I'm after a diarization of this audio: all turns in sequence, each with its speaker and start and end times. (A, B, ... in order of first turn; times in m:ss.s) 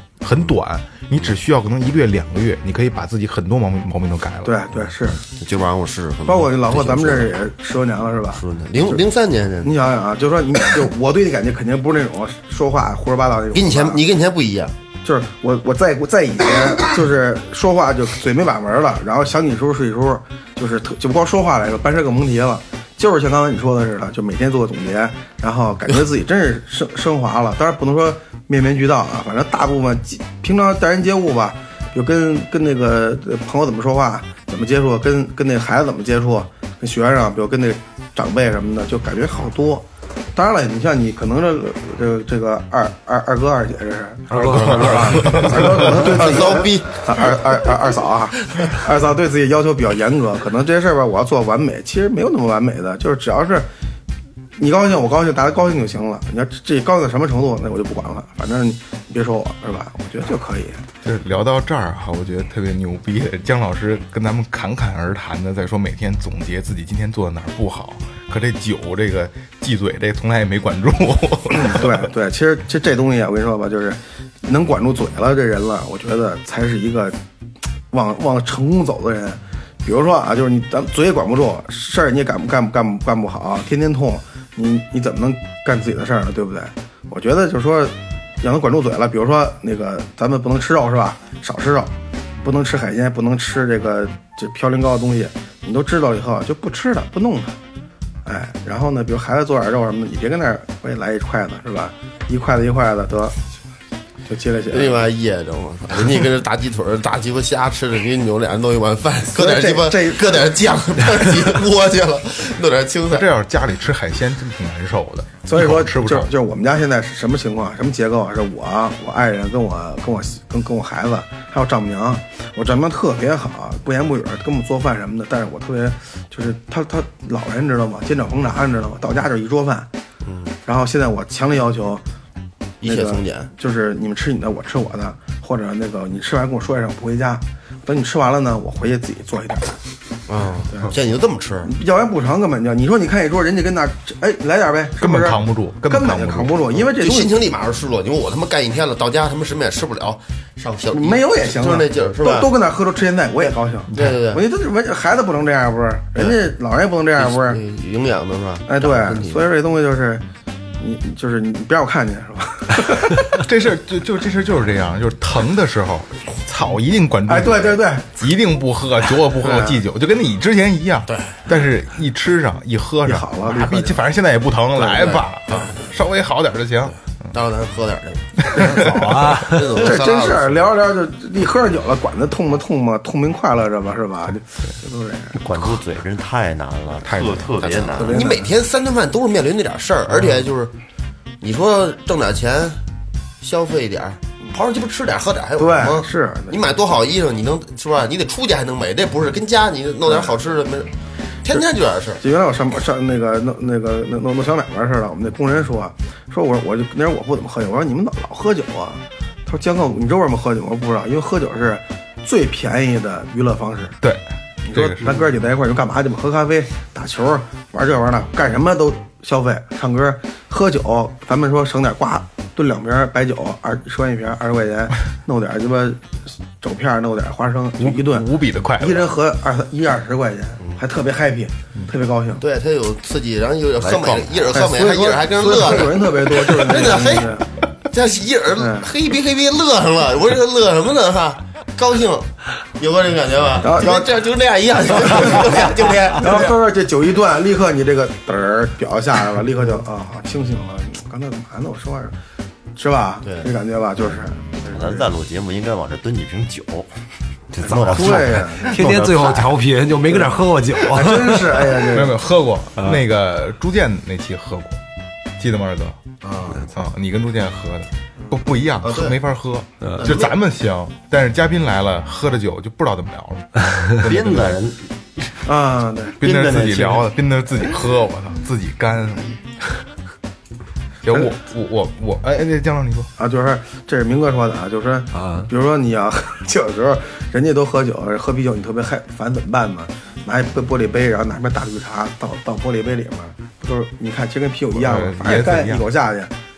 0:00.2-0:04.6 A
0:04.4-0:05.2 B
0:05.3-0:07.4 C
0:06.2-0:09.0 B
0:08.3-0:09.8 C
0:09.6-0:14.0 B
0:13.5-0:14.7 C
0:15.0-0:53.7 B
0:44.3-0:45.5 D
0:44.5-0:45.8 A
0:44.7-0:47.2 C
0:54.6-1:00.8 B
1:01.0-1:12.1 A
1:11.5-1:17.2 B
1:17.9-1:37.6 B
1:38.2-1:43.4 B
1:44.3-1:45.0 B
1:44.7-1:53.3 C
1:49.3-1:50.5 B
1:53.1-1:56.3 A
1:55.5-2:09.9 B
2:10.2-2:10.5 C
2:10.6-2:12.0 B
2:12.8-2:13.5 C
2:12.8-2:19.8 B
2:20.3-2:21.7 C
2:20.7-2:20.9 B
2:21.6-2:27.4 B
2:25.0-2:26.6 A
2:26.8-2:32.5 C
2:30.9-2:37.6 B
2:33.4-2:34.4 C
2:33.9-2:34.2 A
2:37.2-2:39.5 C
2:38.7-2:40.2 B
2:40.8-2:43.4 B
2:43.3-2:57.0 A
2:47.3-2:48.1 B
2:49.4-2:49.8 B
2:51.1-2:51.4 C
2:53.0-2:54.0 B
2:54.9-2:55.7 C
2:57.3-2:58.4 C
2:58.4-2:58.7 A
2:58.5-3:05.8 B
2:58.7-3:00.0 D
2:59.4-3:00.7 C
3:05.3-3:08.3 E
3:07.0-3:07.8 A
3:07.9-3:08.5 B
3:07.9-3:10.7 C
3:11.4-3:12.8 C
3:13.4-3:20.9 C
3:15.6-3:16.6 B
3:21.4-3:22.2 C
3:22.2-3:34.0 B
3:34.0-3:35.2 A
3:34.6-3:52.4 B
3:47.8-3:49.1 A
3:52.4-4:06.5 C
3:53.8-3:54.5 E
3:54.5-3:57.5 B
3:58.6-3:58.9 B
4:03.6-4:04.2 B
4:05.1-4:05.5 B
4:06.2-4:12.2 B
4:12.7-4:15.1 B
4:13.2-4:13.5 C
4:14.6-4:16.9 E
4:17.5-4:19.6 E
4:17.6-4:21.8 D
4:17.9-4:18.7 B
4:20.9-4:22.2 B
4:21.9-4:24.8 A
4:25.4-4:26.0 A
4:26.3-4:26.6 C
4:26.7-4:34.6 A
4:28.8-4:29.2 C
4:29.8-4:30.1 D
4:30.0-4:30.4 C
4:33.6-4:33.9 D
4:34.0-4:35.4 E
4:35.4-4:36.2 B
4:36.2-4:39.4 A
4:36.2-4:37.0 E
4:41.0-4:43.1 A
4:43.2-4:56.3 B
4:45.1-4:45.5 D
4:54.7-4:55.8 A